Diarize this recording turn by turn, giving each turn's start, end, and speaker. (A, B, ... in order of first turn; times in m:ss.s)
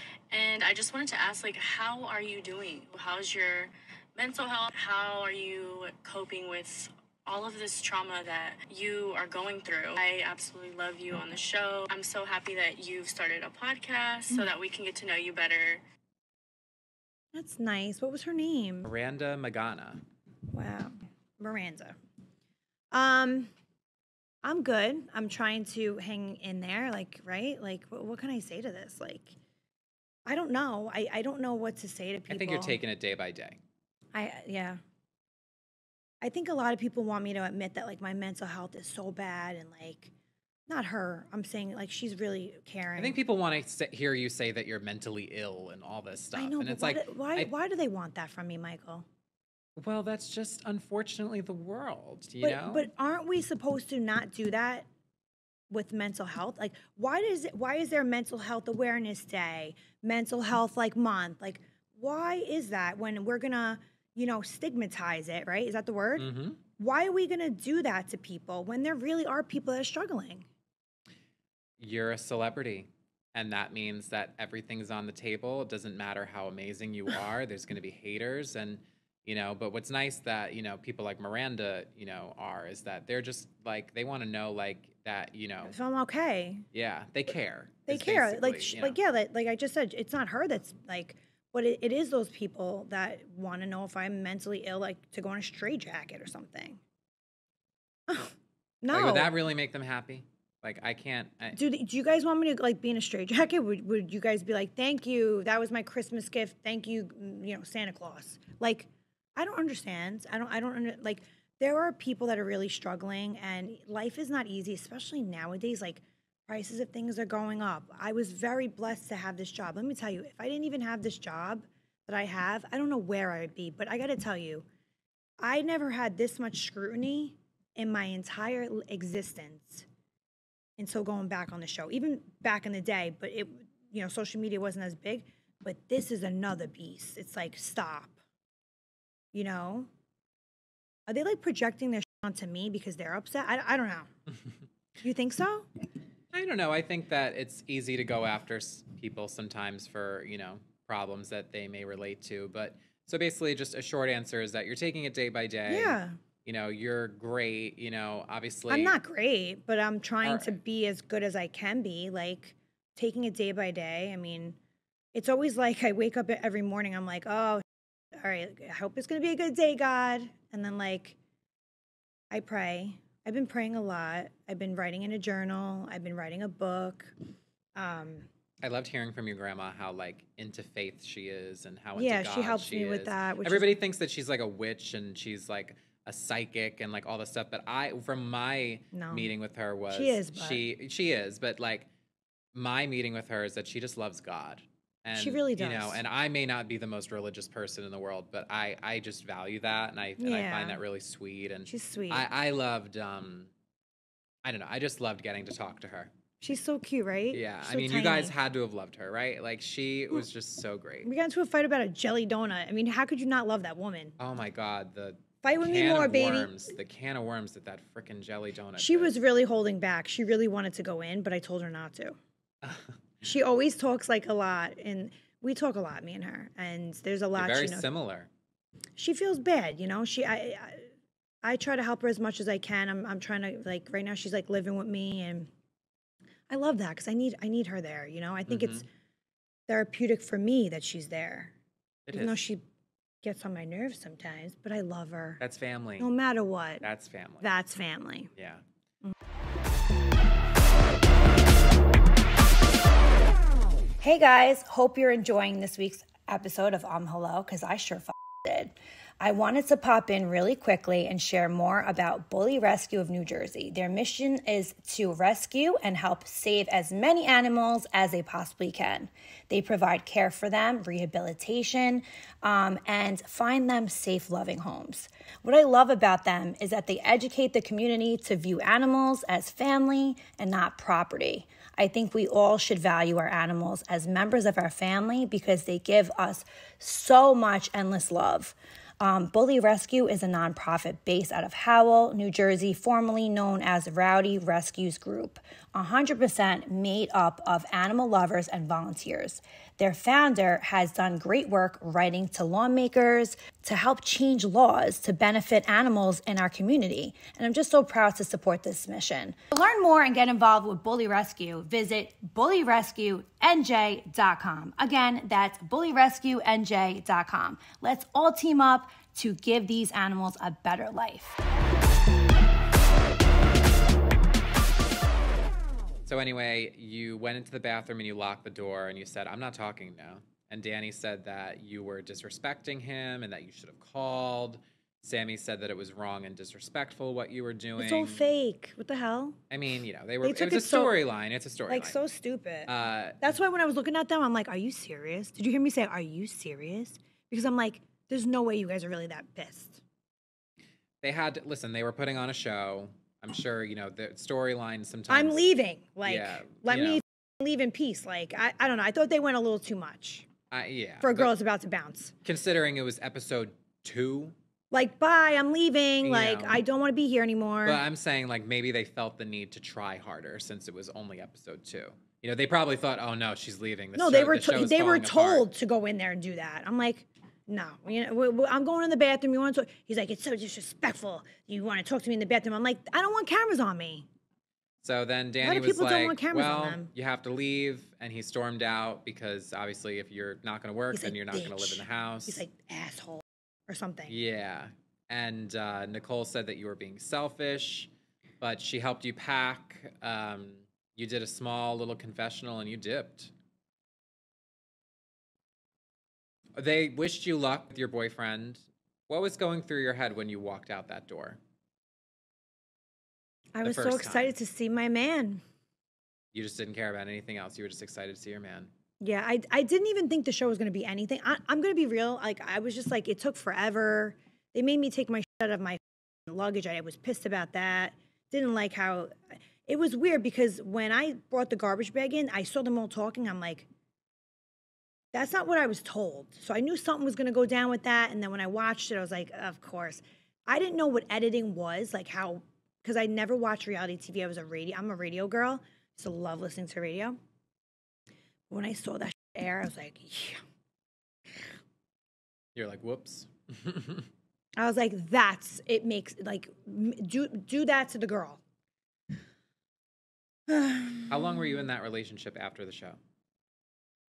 0:00.3-0:15.8 A
0:17.3-0:18.9 B
0:18.8-0:20.0 C
0:20.5-0:22.0 B
0:22.9-0:23.5 B
0:24.4-0:29.4 B
0:30.3-0:32.8 B
0:32.3-0:33.6 C
0:34.1-0:34.8 B
0:36.2-0:40.1 B
0:40.7-0:43.2 B
0:43.0-0:47.5 C
0:46.4-0:49.1 B
0:49.8-0:52.9 C
0:52.4-0:54.9 B
0:55.7-1:10.5 B
1:06.2-1:06.6 C
1:11.8-1:25.7 C
1:25.7-1:26.6 B
1:26.7-1:29.0 C
1:27.9-1:36.8 B
1:38.1-1:39.3 B
1:38.9-1:41.6 C
1:41.5-2:04.6 B
2:05.4-2:09.9 B
2:10.8-2:18.2 B
2:19.3-2:19.9 B
2:21.1-2:24.1 B
2:25.0-2:25.7 B
2:26.3-2:39.0 C
2:35.7-2:36.2 B
2:38.7-2:44.6 B
2:40.2-2:40.6 C
2:45.1-2:51.2 B
2:52.3-2:57.1 B
2:57.8-2:58.3 B
2:58.6-3:11.9 C
3:01.9-3:03.7 B
3:08.9-3:09.3 B
3:09.9-3:10.6 B
3:12.5-3:23.5 C
3:15.1-3:16.0 B
3:20.2-3:20.8 B
3:21.6-3:22.3 B
3:24.4-3:26.1 C
3:26.4-3:28.3 B
3:27.3-3:31.1 C
3:31.0-3:34.2 B
3:34.2-3:39.1 C
3:35.4-3:36.7 B
3:38.8-3:42.2 B
3:42.6-3:43.0 C
3:43.2-3:47.9 B
3:47.4-3:48.3 C
3:49.0-3:50.9 B
3:51.4-3:55.5 B
3:56.5-3:58.9 B
3:58.5-3:58.8 C
3:59.7-4:01.5 B
4:02.1-4:02.4 C
4:02.1-4:02.6 B
4:03.2-4:05.4 B
4:05.4-4:06.1 C
4:06.0-4:06.8 B
4:06.8-4:07.5 C
4:07.4-4:08.3 B
4:08.4-4:08.6 C
4:14.0-5:21.4 B
5:26.0-5:38.2 C
5:37.8-5:39.4 B
5:39.5-5:42.0 C
5:40.2-5:40.9 B
5:41.7-5:49.8 B
5:42.7-5:43.2 C
5:51.0-5:55.4 C
5:55.1-6:00.3 B
5:56.0-5:57.0 C
6:00.5-6:01.3 C
6:01.0-6:02.1 B
6:02.2-6:04.4 C
6:04.7-6:07.8 B
6:06.0-6:06.6 C
6:07.6-6:15.5 C
6:14.0-6:24.1 B
6:24.8-6:32.4 C
6:25.4-6:26.9 B
6:30.9-6:34.2 B
6:34.1-6:37.9 C
6:38.4-6:43.3 C
6:46.5-6:51.4 C
6:53.5-6:55.4 B
6:53.6-6:54.4 C
6:56.3-6:58.7 C
6:59.0-7:13.7 B
7:15.1-7:27.2 B
7:28.5-7:30.4 B
7:32.5-7:34.1 C
7:34.6-7:38.4 B
7:40.5-7:41.4 B
7:41.1-7:43.0 C